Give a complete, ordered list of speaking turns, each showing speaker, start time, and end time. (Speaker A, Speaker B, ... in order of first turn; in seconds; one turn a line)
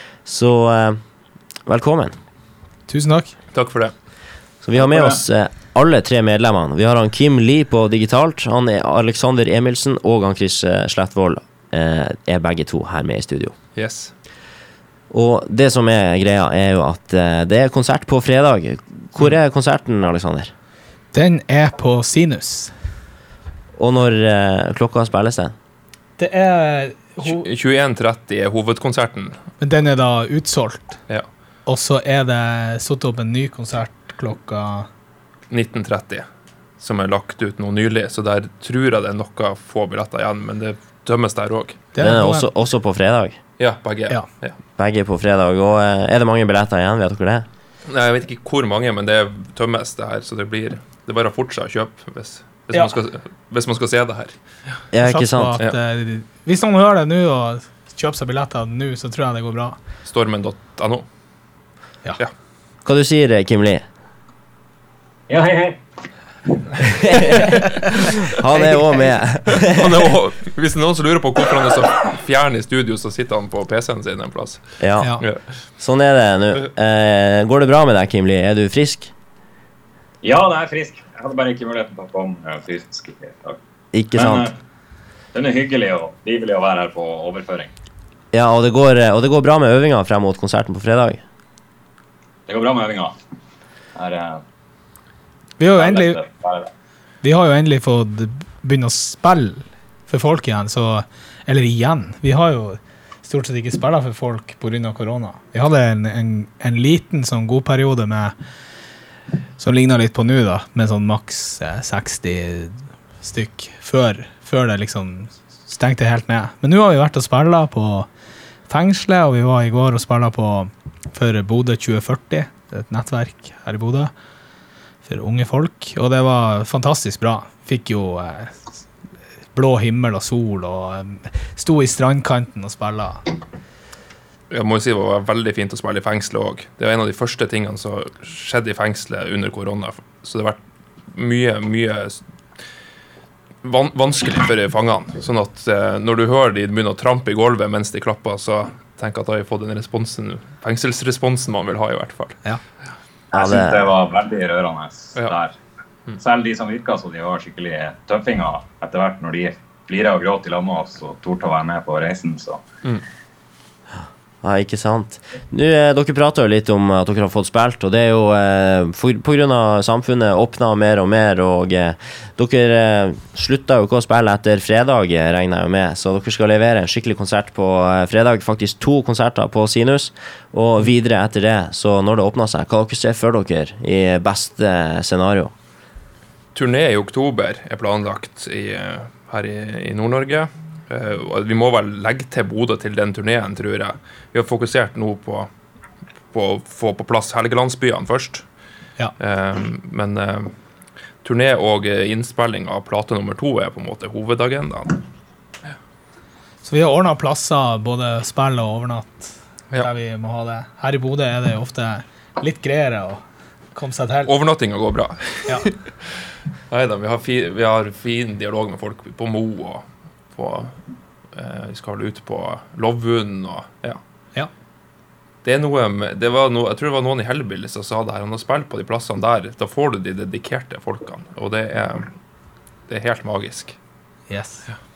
Speaker A: 0.3-1.0
Speaker A: 1.7-2.1
Speaker B: 2.9-3.4
Speaker C: 3.5-3.9
Speaker A: 4.6-13.5
Speaker D: 4.8-5.2
Speaker C: 13.8-14.1
Speaker A: 15.1-20.5
Speaker B: 21.1-22.7
Speaker A: 23.8-25.5
Speaker B: 26.2-27.5
Speaker C: 27.2-29.4
Speaker B: 29.6-31.0
Speaker B: 31.7-34.9
Speaker C: 35.5-36.3
Speaker C: 36.8-41.9
Speaker B: 41.9-42.5
Speaker A: 42.0-43.4
Speaker C: 43.6-44.6
Speaker A: 44.8-47.5
Speaker C: 47.9-54.3
Speaker A: 54.9-55.6
Speaker B: 55.0-59.8
Speaker C: 60.0-61.1
Speaker A: 62.9-63.8
Speaker D: 65.3-65.8
Speaker D: 66.5-67.4
Speaker A: 68.3-69.9
Speaker B: 68.5-69.2
Speaker C: 69.5-74.6
Speaker A: 74.8-75.1
Speaker B: 75.0-75.2
Speaker A: 75.8-79.1
Speaker D: 80.2-83.6
Speaker A: 83.9-84.5
Speaker D: 84.1-84.6
Speaker D: 85.3-87.7
Speaker A: 88.3-91.2
Speaker D: 92.5-93.2
Speaker D: 94.0-94.4
Speaker B: 95.6-96.2
Speaker D: 95.8-96.7
Speaker B: 97.2-108.3
Speaker B: 109.6-118.1
Speaker B: 118.7-124.1
Speaker B: 125.0-128.6
Speaker B: 129.6-133.4
Speaker C: 134.5-140.6
Speaker C: 141.1-142.2
Speaker C: 143.6-152.4
Speaker D: 153.3-155.6
Speaker A: 153.3-153.9
Speaker D: 156.2-162.6
Speaker A: 164.4-185.5
Speaker C: 186.6-195.5
Speaker C: 196.3-198.4
Speaker C: 199.2-200.5
Speaker C: 201.2-205.0
Speaker B: 206.6-213.2
Speaker B: 213.7-214.3
Speaker C: 214.3-215.8
Speaker C: 216.7-220.8
Speaker C: 221.3-224.0
Speaker C: 225.4-232.1
Speaker C: 232.9-233.8
Speaker B: 234.3-234.7